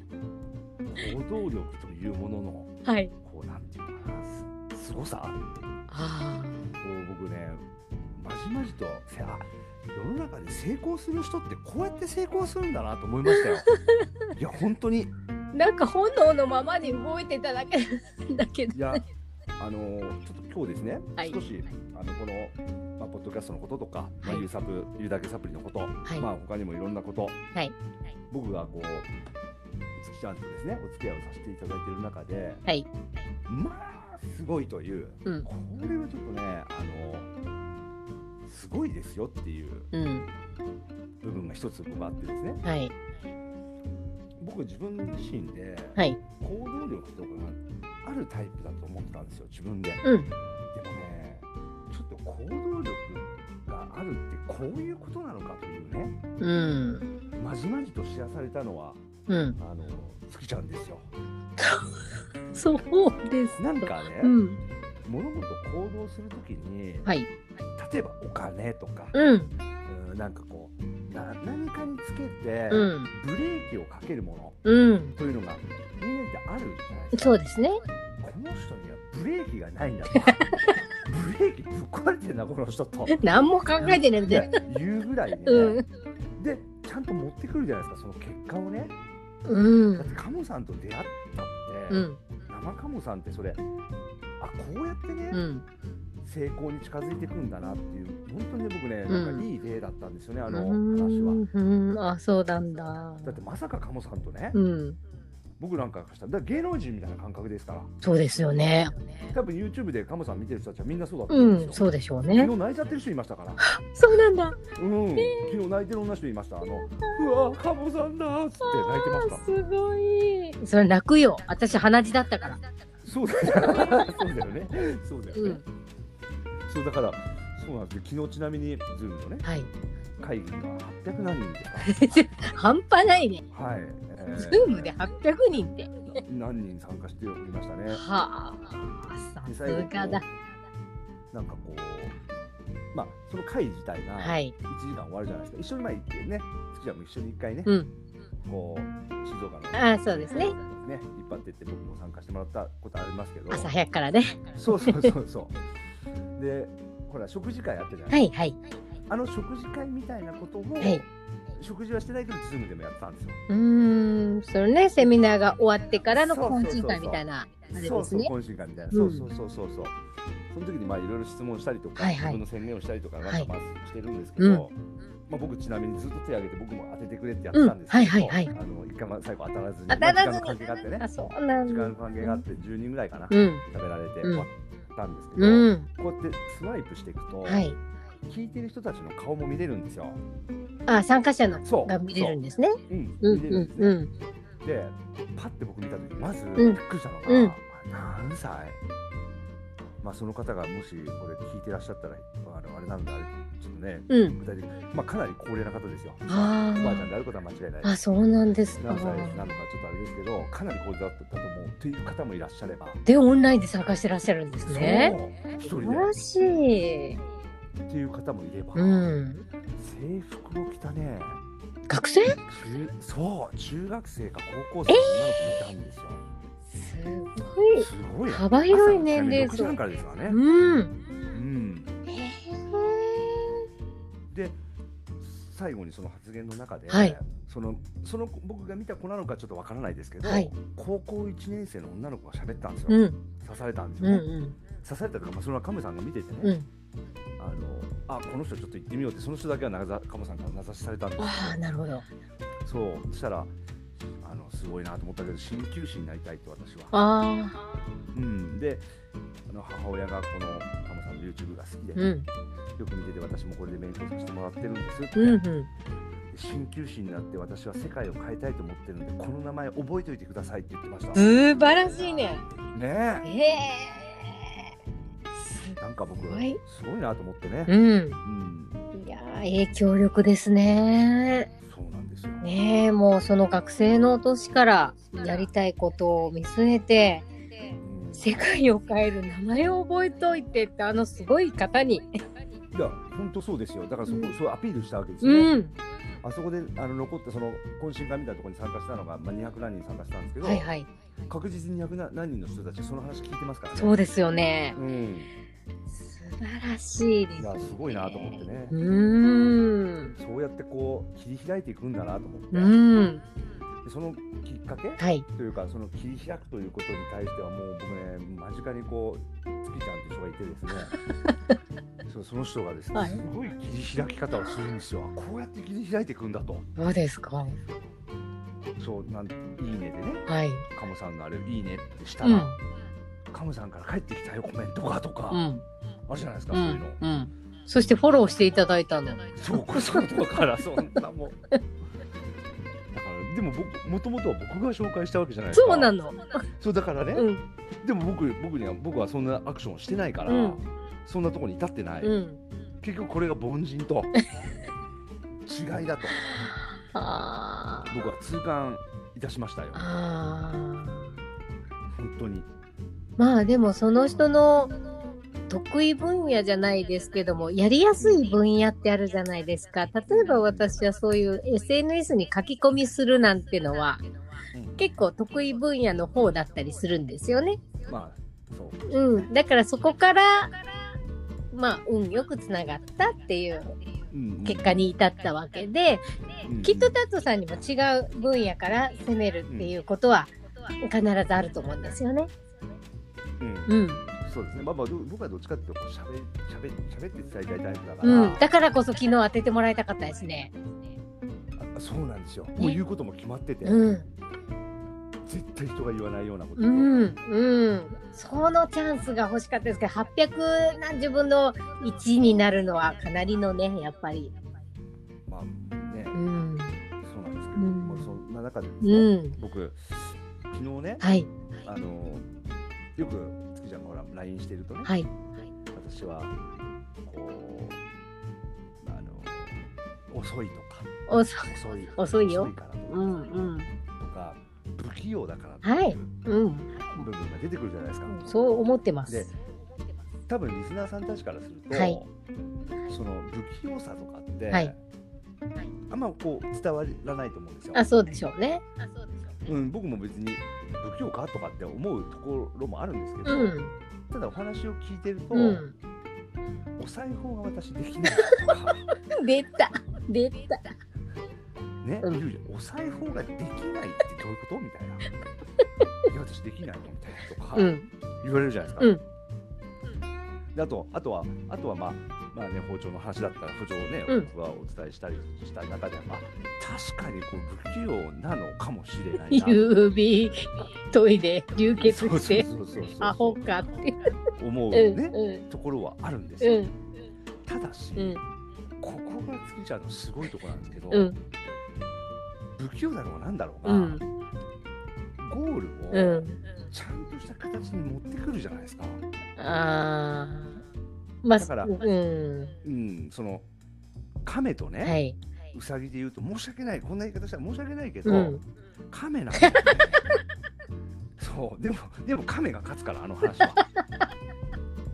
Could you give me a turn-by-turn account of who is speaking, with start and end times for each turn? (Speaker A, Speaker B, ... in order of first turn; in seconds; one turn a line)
Speaker A: 0.8-2.7
Speaker B: 2.8-3.1
Speaker A: 3.2-5.4
Speaker B: 5.9-6.7
Speaker A: 6.8-7.6
Speaker A: 8.2-13.7
Speaker B: 13.3-14.1
Speaker A: 14.3-15.1
Speaker B: 15.5-19.0
Speaker A: 18.7-19.0
Speaker A: 19.6-27.4
Speaker A: 28.3-29.1
Speaker A: 30.0-32.6
Speaker A: 33.5-37.3
Speaker A: 38.4-39.9
Speaker B: 39.9-40.3
Speaker A: 41.2-42.6
Speaker B: 42.6-42.9
Speaker A: 44.4-50.0
Speaker B: 50.0-50.3
Speaker A: 50.7-56.2
Speaker B: 56.4-57.0
Speaker A: 57.4-59.0
Speaker B: 59.3-59.6
Speaker A: 59.6-61.1
Speaker B: 61.6-64.6
Speaker A: 63.6-64.4
Speaker A: 65.0-67.1
Speaker A: 67.8-69.2
Speaker B: 69.1-69.5
Speaker A: 69.9-74.6
Speaker B: 72.7-73.1
Speaker B: 74.6-75.1
Speaker A: 75.2-77.3
Speaker B: 77.1-77.8
Speaker A: 78.2-80.5
Speaker B: 80.2-80.8
Speaker A: 81.0-83.2
Speaker B: 83.1-84.5
Speaker A: 83.8-85.8
Speaker B: 85.5-85.8
Speaker A: 86.4-88.9
Speaker B: 89.5-90.2
Speaker A: 89.9-93.6
Speaker B: 91.9-92.2
Speaker A: 94.4-95.4
Speaker B: 95.3-95.6
Speaker A: 96.2-101.4
Speaker B: 99.1-99.5
Speaker B: 100.5-103.4
Speaker A: 103.2-104.6
Speaker B: 104.5-105.0
Speaker A: 105.6-107.9
Speaker B: 108.0-109.1
Speaker A: 109.3-113.6
Speaker B: 111.3-112.5
Speaker B: 113.7-114.6
Speaker A: 114.7-119.4
Speaker B: 115.2-115.5
Speaker B: 117.0-117.5
Speaker B: 118.6-122.6
Speaker A: 123.0-125.6
Speaker B: 123.5-124.2
Speaker B: 125.3-125.6
Speaker A: 126.7-129.4
Speaker B: 129.4-129.7
Speaker A: 130.2-132.2
Speaker B: 131.8-133.4
Speaker A: 133.5-134.9
Speaker B: 134.3-135.9
Speaker A: 136.1-138.0
Speaker B: 137.9-140.2
Speaker A: 139.4-140.2
Speaker A: 141.3-142.2
Speaker A: 142.9-147.7
Speaker B: 144.2-144.5
Speaker B: 147.7-147.9
Speaker A: 148.4-153.7
Speaker B: 149.7-150.5
Speaker B: 153.5-155.1
Speaker A: 154.5-155.6
Speaker A: 156.3-158.2
Speaker B: 158.1-158.6
Speaker A: 159.1-163.4
Speaker B: 163.5-168.3
Speaker A: 166.1-170.0
Speaker B: 168.9-169.3
Speaker A: 170.5-174.7
Speaker B: 172.0-172.4
Speaker B: 173.2-173.5
Speaker B: 174.4-174.7
Speaker A: 175.3-181.1
Speaker B: 177.5-178.5
Speaker B: 179.9-182.4
Speaker A: 181.7-187.7
Speaker B: 183.3-183.6
Speaker B: 185.4-185.9
Speaker B: 187.4-187.8
Speaker A: 188.3-190.2
Speaker B: 190.9-194.1
Speaker A: 191.6-192.4
Speaker A: 192.9-193.9
Speaker A: 194.6-198.8
Speaker B: 196.6-197.5
Speaker A: 200.0-208.0
Speaker B: 204.1-204.4
Speaker B: 206.3-207.1
Speaker B: 207.8-209.6
Speaker A: 208.8-213.0
Speaker B: 213.1-217.2
Speaker A: 214.7-216.1
Speaker A: 217.9-219.1
Speaker B: 218.7-219.4
Speaker A: 219.8-221.4
Speaker B: 221.9-222.4
Speaker A: 222.4-226.2
Speaker B: 224.9-225.5
Speaker B: 226.7-230.9
Speaker A: 227.8-230.4
Speaker A: 231.3-231.9
Speaker B: 232.1-233.7
Speaker A: 234.3-234.6
Speaker A: 235.2-246.5
Speaker B: 236.9-237.2
Speaker B: 240.2-240.5
Speaker B: 242.9-243.2
Speaker B: 244.0-244.6
Speaker A: 247.4-251.6
Speaker B: 251.2-252.1
Speaker A: 252.6-253.5
Speaker A: 254.2-256.9
Speaker B: 256.9-257.6
Speaker A: 258.1-258.9
Speaker A: 259.5-262.1
Speaker B: 262.0-262.3
Speaker A: 262.8-265.4
Speaker B: 265.1-265.7
Speaker A: 266.3-271.3
Speaker B: 271.1-272.4
Speaker A: 272.7-273.3
Speaker B: 273.2-274.6
Speaker B: 275.4-275.8
Speaker A: 275.8-278.8
Speaker B: 276.3-276.6
Speaker B: 277.7-278.2
Speaker B: 278.9-281.5
Speaker A: 281.6-282.5
Speaker B: 282.4-287.3
Speaker A: 287.8-288.4
Speaker B: 288.1-292.1
Speaker A: 292.7-295.5
Speaker B: 294.1-294.3
Speaker B: 295.2-295.8
Speaker A: 296.2-300.7
Speaker B: 300.4-300.9
Speaker A: 301.3-304.0
Speaker B: 303.7-304.8
Speaker A: 304.7-305.3
Speaker B: 306.0-310.1
Speaker A: 307.4-308.8
Speaker A: 310.2-312.7
Speaker B: 312.5-313.2
Speaker A: 313.8-320.9
Speaker B: 315.0-315.2
Speaker B: 321.2-321.6
Speaker A: 322.1-326.7
Speaker B: 322.9-323.2
Speaker B: 326.8-327.6
Speaker A: 328.8-332.6
Speaker B: 330.3-330.6
Speaker B: 332.2-332.6
Speaker A: 333.3-335.4
Speaker B: 335.3-335.6
Speaker A: 336.1-337.0
Speaker B: 336.5-340.2
Speaker A: 339.4-341.4
Speaker A: 342.9-345.9
Speaker B: 345.5-346.2
Speaker A: 346.6-347.3
Speaker B: 347.1-347.4
Speaker A: 347.8-352.1
Speaker B: 350.3-350.6
Speaker B: 352.0-352.4
Speaker A: 352.8-354.1
Speaker A: 355.4-356.2
Speaker B: 356.3-358.0
Speaker A: 357.9-359.8
Speaker B: 359.7-361.2
Speaker A: 361.9-362.5
Speaker B: 363.2-364.7
Speaker B: 365.5-374.0
Speaker A: 368.0-368.2
Speaker A: 370.1-370.7
Speaker A: 374.5-374.9
Speaker B: 374.8-377.6
Speaker A: 377.8-379.3
Speaker B: 378.9-380.6
Speaker B: 381.5-383.8
Speaker A: 384.1-384.9
Speaker B: 384.4-392.3
Speaker A: 386.4-387.0
Speaker A: 389.5-389.7
Speaker A: 393.4-398.5
Speaker B: 393.7-394.0
Speaker B: 398.0-400.5
Speaker A: 401.6-403.9
Speaker B: 403.6-404.1
Speaker A: 405.2-407.1
Speaker B: 406.6-414.3
Speaker A: 415.3-416.2
Speaker B: 416.1-416.8
Speaker A: 417.0-421.1
Speaker B: 417.6-418.2
Speaker B: 418.8-419.4
Speaker B: 421.0-421.3
Speaker A: 421.6-422.2
Speaker A: 423.0-424.9
Speaker A: 425.7-426.4
Speaker A: 427.0-427.8
Speaker A: 428.8-436.1
Speaker B: 431.1-433.7
Speaker B: 435.6-437.0
Speaker A: 436.9-438.3
Speaker B: 438.1-439.3
Speaker A: 439.1-439.3
Speaker A: 440.3-442.1
Speaker B: 441.7-442.0
Speaker A: 442.9-444.8
Speaker A: 445.9-447.8
Speaker B: 447.7-448.6
Speaker A: 449.4-453.6
Speaker B: 453.2-453.7
Speaker A: 454.1-455.6
Speaker B: 455.3-455.7
Speaker A: 456.8-458.9
Speaker B: 458.2-458.5
Speaker B: 459.1-460.7
Speaker A: 461.8-465.1
Speaker A: 466.1-468.9
Speaker B: 467.6-467.9
Speaker A: 470.5-479.7
Speaker B: 479.2-482.5
Speaker A: 481.8-483.6
Speaker B: 483.0-484.1
Speaker A: 484.4-486.7
Speaker B: 484.7-485.4
Speaker B: 486.4-486.7
Speaker A: 487.4-488.2
Speaker A: 488.8-491.1
Speaker A: 492.6-494.0
Speaker B: 493.6-494.0
Speaker A: 495.2-499.0
Speaker B: 495.9-496.4
Speaker B: 499.4-500.6
Speaker B: 501.2-502.5
Speaker A: 501.4-501.7
Speaker A: 502.6-503.4
Speaker A: 504.2-505.0
Speaker B: 504.8-505.2
Speaker A: 505.5-508.4
Speaker B: 508.0-508.4
Speaker A: 508.9-510.0
Speaker B: 509.4-509.8
Speaker A: 511.2-513.6
Speaker B: 513.4-513.8